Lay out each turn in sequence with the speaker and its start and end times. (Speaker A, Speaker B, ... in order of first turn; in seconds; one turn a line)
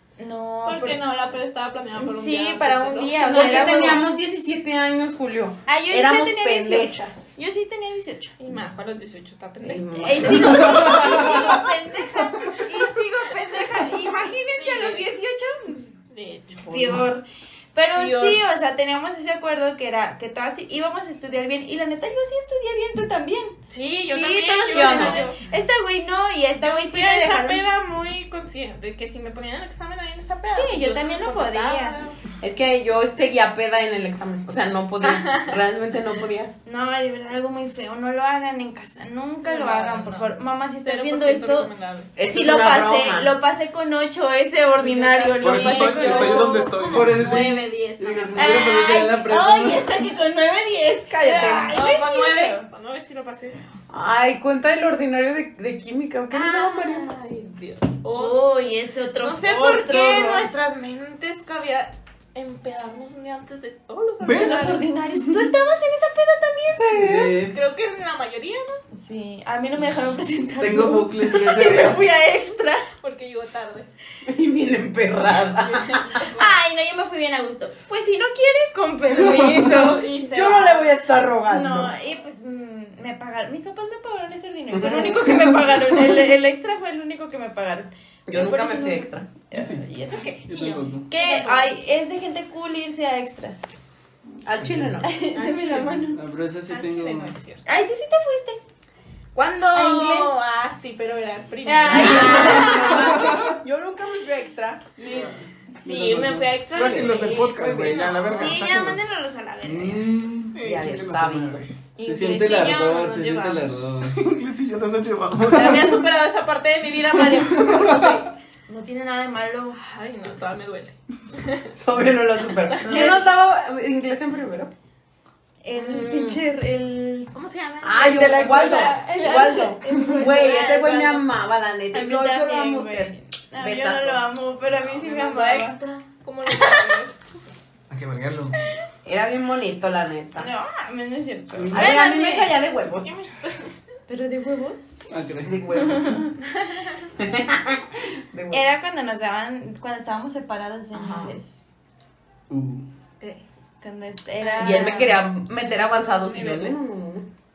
Speaker A: 0.2-1.0
Speaker B: 0.7-4.0
Speaker A: 1.9-4.0
Speaker C: 3.2-7.2
Speaker A: 5.7-8.3
Speaker B: 8.4-11.6
Speaker C: 9.6-11.4
Speaker A: 10.0-15.9
Speaker D: 10.7-11.1
Speaker B: 14.6-15.1
Speaker B: 16.1-17.0
Speaker C: 16.6-17.1
Speaker A: 16.7-27.7
Speaker B: 17.9-18.4
Speaker B: 23.7-25.4
Speaker C: 24.7-25.3
Speaker B: 26.6-32.2
Speaker A: 30.5-32.0
Speaker C: 32.4-36.5
Speaker B: 35.0-35.6
Speaker A: 36.6-41.7
Speaker B: 39.4-42.1
Speaker C: 42.2-43.3
Speaker A: 42.3-52.7
Speaker B: 44.8-46.8
Speaker E: 45.4-47.6
Speaker D: 46.7-49.9
Speaker B: 48.1-48.8
Speaker C: 51.1-51.8
Speaker B: 51.3-53.6
Speaker C: 53.9-57.1
Speaker A: 56.3-56.6
Speaker B: 56.5-58.4
Speaker A: 58.1-60.5
Speaker B: 59.2-64.9
Speaker E: 64.2-64.7
Speaker A: 64.3-67.2
Speaker D: 65.2-65.5
Speaker C: 66.8-67.3
Speaker D: 67.0-67.6
Speaker B: 67.4-68.8
Speaker A: 68.9-72.9
Speaker D: 70.6-72.0
Speaker B: 73.0-73.9
Speaker C: 74.2-76.1
Speaker B: 75.4-76.5
Speaker A: 76.3-80.8
Speaker D: 79.2-79.7
Speaker B: 79.5-81.0
Speaker C: 80.3-81.9
Speaker A: 81.5-90.5
Speaker C: 84.8-85.3
Speaker C: 88.3-89.3
Speaker E: 89.5-89.9
Speaker B: 90.1-91.7
Speaker D: 90.5-91.1
Speaker A: 91.1-93.7
Speaker C: 94.5-95.2
Speaker E: 94.6-95.0
Speaker A: 95.0-96.2
Speaker B: 95.3-96.1
Speaker D: 96.1-97.4
Speaker B: 96.7-97.6
Speaker A: 97.7-98.6
Speaker B: 99.3-103.2
Speaker A: 99.7-100.4
Speaker A: 101.6-103.3
Speaker C: 101.9-105.4
Speaker D: 103.0-103.4
Speaker E: 103.2-103.5
Speaker E: 105.1-105.4
Speaker D: 105.8-106.5
Speaker B: 105.8-108.5
Speaker E: 106.7-109.0
Speaker A: 108.3-110.1
Speaker D: 109.6-110.5
Speaker E: 110.5-111.8
Speaker C: 110.6-111.6
Speaker B: 112.0-114.0
Speaker D: 112.0-114.2
Speaker E: 114.0-116.1
Speaker B: 115.5-118.3
Speaker A: 118.7-119.8
Speaker B: 119.7-121.7
Speaker C: 121.8-124.7
Speaker B: 122.5-123.3
Speaker A: 122.8-123.2
Speaker A: 125.6-127.3
Speaker C: 125.7-126.4
Speaker B: 127.3-129.7
Speaker C: 127.8-134.2
Speaker A: 128.0-131.2
Speaker B: 130.4-130.9
Speaker A: 131.9-135.8
Speaker B: 134.7-137.1
Speaker E: 137.9-138.6
Speaker C: 139.0-140.5
Speaker A: 140.4-142.6
Speaker E: 141.5-141.9
Speaker C: 141.7-143.1
Speaker B: 143.0-143.7
Speaker A: 144.1-145.0
Speaker D: 145.1-145.8
Speaker C: 145.4-146.3
Speaker A: 145.8-146.3
Speaker B: 146.6-147.0
Speaker C: 147.2-148.7
Speaker A: 148.5-151.7
Speaker C: 150.9-151.4
Speaker D: 152.5-152.9
Speaker A: 153.8-155.3
Speaker B: 154.4-155.1
Speaker C: 154.6-157.3
Speaker B: 156.2-156.8